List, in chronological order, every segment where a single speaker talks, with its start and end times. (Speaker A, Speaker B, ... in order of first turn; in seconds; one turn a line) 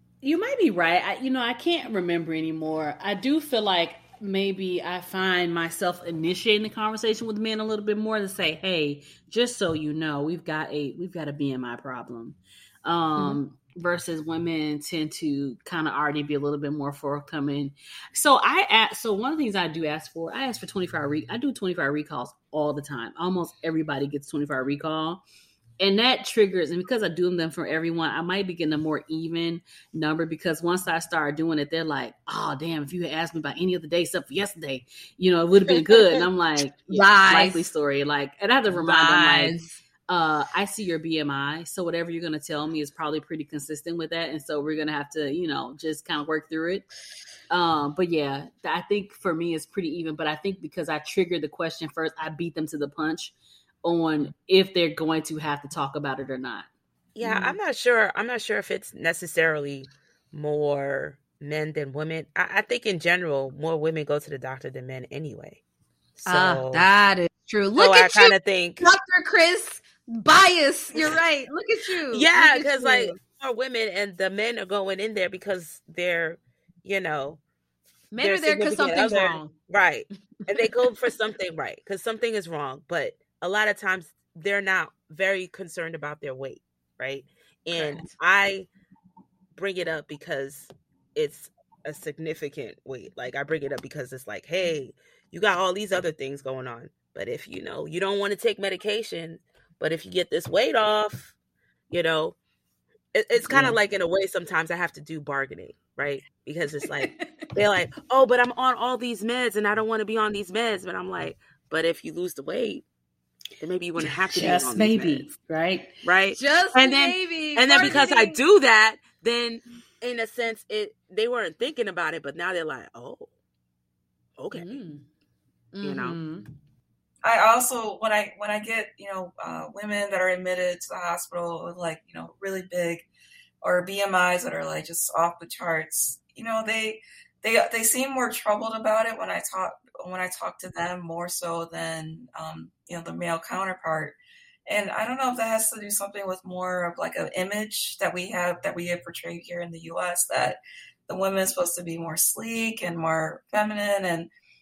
Speaker A: 0.2-25.2
Speaker A: 25.8-39.5
Speaker B: 36.9-37.7
Speaker B: 38.7-39.8
Speaker A: 40.1-46.9
Speaker A: 47.5-53.3
Speaker A: 53.8-56.7
Speaker C: 57.1-65.6
Speaker B: 57.2-57.5
Speaker B: 66.2-73.2
Speaker C: 66.2-66.8
Speaker C: 67.8-68.8
Speaker C: 72.1-77.4
Speaker B: 78.1-79.5
Speaker C: 78.2-88.7
Speaker B: 87.7-88.1
Speaker C: 89.5-101.3
Speaker C: 101.9-102.3
Speaker C: 103.1-112.8
Speaker A: 103.5-103.8
Speaker B: 107.0-107.3
Speaker C: 113.6-115.3
Speaker A: 114.3-115.9
Speaker C: 116.0-123.3
Speaker B: 116.3-118.4
Speaker C: 124.4-124.8
Speaker B: 124.5-125.0
Speaker B: 125.7-126.5
Speaker C: 125.8-126.2
Speaker D: 127.2-133.1
Speaker D: 133.6-144.2
Speaker D: 144.7-154.3